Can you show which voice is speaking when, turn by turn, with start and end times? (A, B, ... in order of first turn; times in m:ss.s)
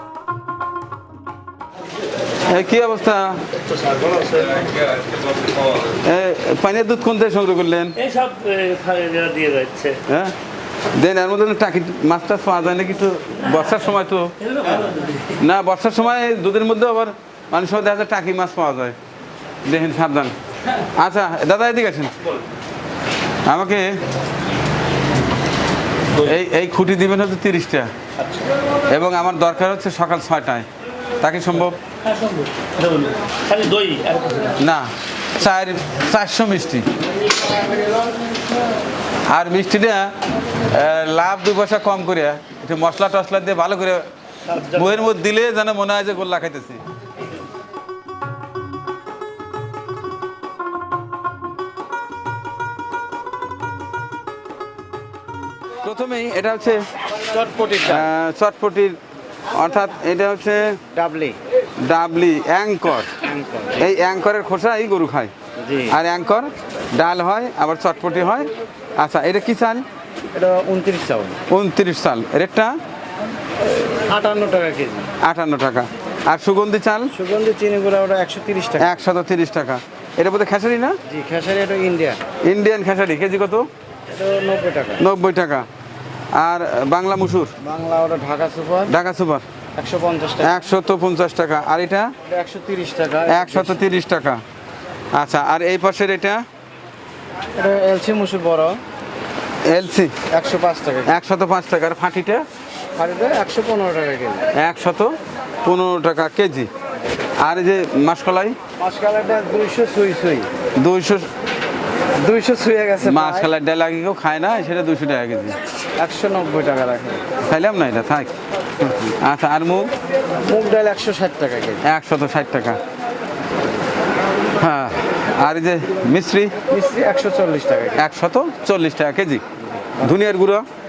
0:02.5-0:03.4 A
0:03.8-0:04.5 B
0:06.0-0:08.0 A
0:08.0-0:10.0 B
0:10.1-0:10.4 A
0:11.0-0:14.7 A
0:14.4-0:15.4 B
0:15.4-0:19.0 A
0:19.6-0:20.4 A
0:21.0-0:22.1 A
0:23.5-0:24.0 A
0:26.2-0:27.9 A
0:28.9-0:30.7 A
0:31.2-0:31.8 A
0:32.1-0:34.5 B
0:34.6-0:36.9 A
0:39.3-0:40.1 A
0:40.7-0:44.1 A
0:44.7-0:46.8 A
0:55.8-0:56.9 A
0:57.3-0:58.1 C
0:57.8-0:59.0 A
0:59.5-1:00.8 A
1:00.9-1:01.4 C
1:01.8-1:03.1 A
1:03.2-1:03.9 C
1:03.8-1:05.3 A
1:05.6-1:06.0 C
1:05.9-1:09.8 A
1:10.3-1:11.4 C
1:11.5-1:12.8 A
1:13.6-1:15.1 C
1:15.2-1:17.1 A
1:17.2-1:19.0 C
1:18.8-1:21.0 A
1:21.1-1:22.2 C
1:22.4-1:23.7 A
1:24.1-1:25.0 C
1:25.0-1:25.7 A
1:26.4-1:27.5 A
1:27.6-1:28.9 C
1:28.9-1:29.4 A
1:29.8-1:30.6 C
1:30.4-1:32.1 A
1:32.3-1:33.9 C
1:33.3-1:34.4 A
1:35.1-1:36.4 A
1:37.6-1:38.8 C
1:39.7-1:40.2 A
1:40.3-1:41.1 C
1:41.1-1:42.4 A
1:43.0-1:44.4 C
1:44.6-1:46.7 A
1:47.4-1:48.6 A
1:48.8-1:50.5 C
1:50.8-1:51.3 A
1:52.2-1:53.5 C
1:53.0-1:55.6 A
1:56.0-1:57.2 C
1:57.5-1:58.3 A
1:59.2-1:59.9 A
2:00.4-2:01.8 C
2:01.8-2:02.8 A
2:04.6-2:06.6 A
2:06.7-2:08.0 C
2:08.0-2:09.4 A
2:09.9-2:10.1 C
2:10.0-2:10.6 A